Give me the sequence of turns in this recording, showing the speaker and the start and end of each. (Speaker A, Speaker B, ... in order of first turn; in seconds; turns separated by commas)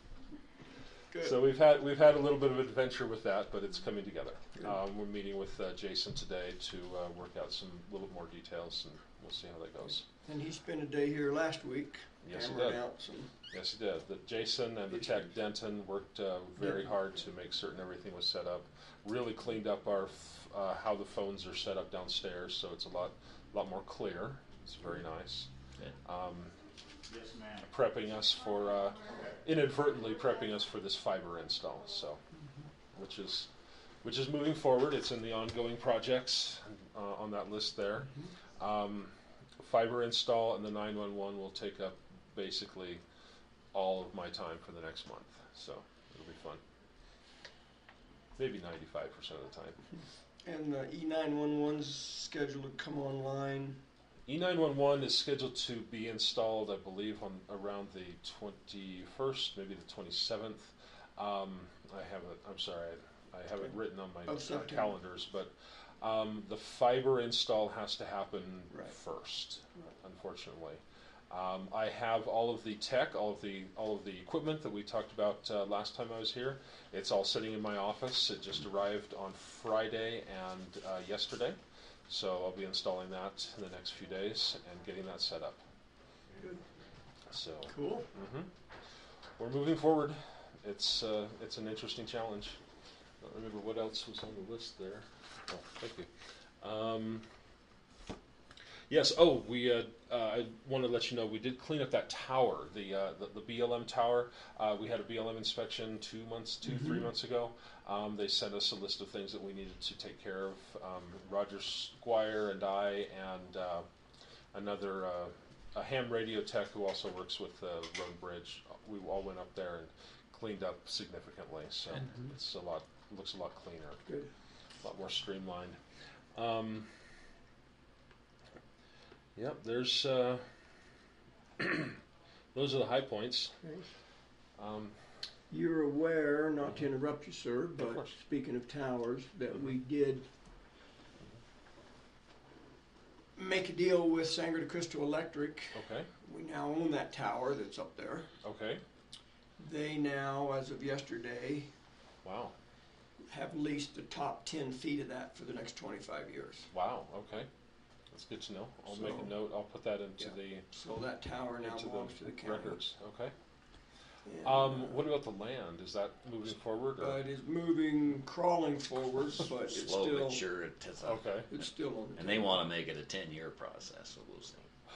Speaker A: 1.2-10.1, Speaker B: 10.3-13.3, Speaker A: 12.2-12.9, Speaker A: 13.5-25.5, Speaker B: 14.9-15.2, Speaker B: 16.6-16.9, Speaker A: 26.0-26.5, Speaker A: 27.6-32.2, Speaker A: 32.9-33.5, Speaker A: 34.0-43.0, Speaker A: 43.7-46.6, Speaker A: 48.4-49.8, Speaker B: 50.4-53.8, Speaker A: 54.3-85.6, Speaker B: 64.3-65.0, Speaker B: 86.4-86.6, Speaker A: 87.3-88.5, Speaker B: 87.7-88.1, Speaker A: 89.4-92.6, Speaker A: 93.2-96.1, Speaker A: 96.6-97.2, Speaker A: 98.9-113.9, Speaker A: 114.5-124.0, Speaker A: 124.8-125.8, Speaker A: 126.4-126.9, Speaker A: 129.4-130.4, Speaker A: 131.6-132.0, Speaker A: 132.5-133.5, Speaker A: 134.6-135.0, Speaker B: 135.5-140.2, Speaker A: 137.8-138.1, Speaker B: 143.4-148.3, Speaker A: 145.7-146.1, Speaker A: 148.4-148.8, Speaker B: 149.6-151.7, Speaker A: 152.2-152.6, Speaker B: 153.3-156.7, Speaker A: 156.7-157.5, Speaker A: 158.1-160.7, Speaker B: 158.9-159.3, Speaker B: 160.2-162.8, Speaker A: 161.6-163.3, Speaker B: 164.2-165.1, Speaker A: 164.4-167.2, Speaker B: 167.0-170.5, Speaker C: 169.6-174.7, Speaker A: 171.0-171.5, Speaker B: 171.5-172.7